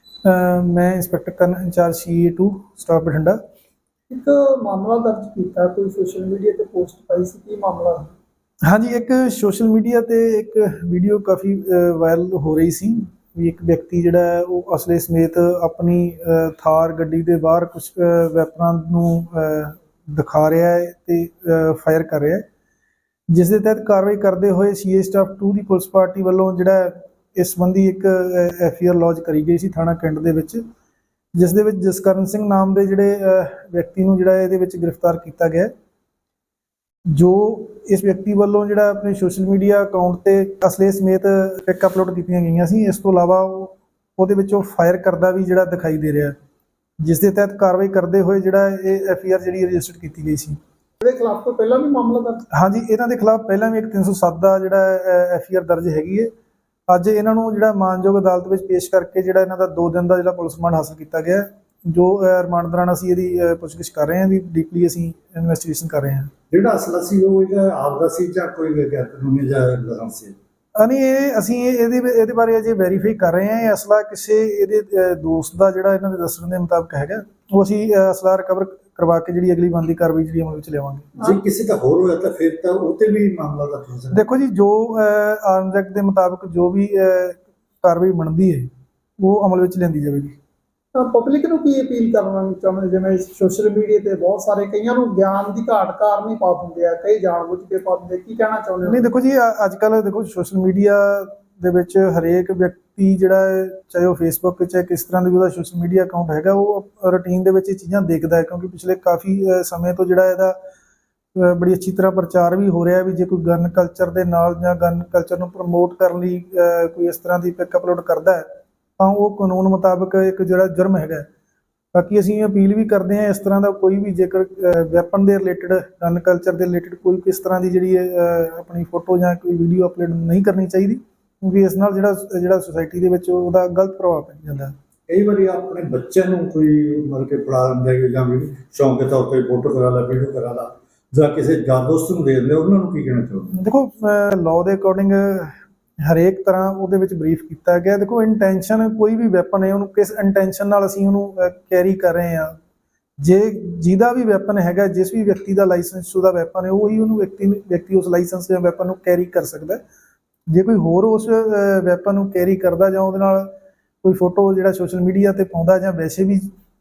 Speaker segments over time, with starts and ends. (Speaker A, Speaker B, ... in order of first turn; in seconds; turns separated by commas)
Speaker A: 0.2-3.4, Speaker B: 4.1-8.1, Speaker A: 8.7-22.4, Speaker A: 23.3-30.6, Speaker A: 31.4-35.7, Speaker A: 37.1-46.4, Speaker A: 47.0-50.6, Speaker B: 51.0-52.4, Speaker A: 52.5-56.3, Speaker A: 56.9-66.3, Speaker C: 66.5-70.3, Speaker A: 70.8-81.1, Speaker C: 81.3-84.2, Speaker A: 84.1-88.7, Speaker A: 89.2-90.3, Speaker B: 90.9-99.1, Speaker A: 98.8-110.6, Speaker A: 111.3-118.4, Speaker A: 119.0-121.3, Speaker A: 121.9-134.7, Speaker C: 135.1-143.4, Speaker A: 143.5-152.6, Speaker A: 153.2-159.8, Speaker A: 160.5-163.5, Speaker A: 164.0-166.5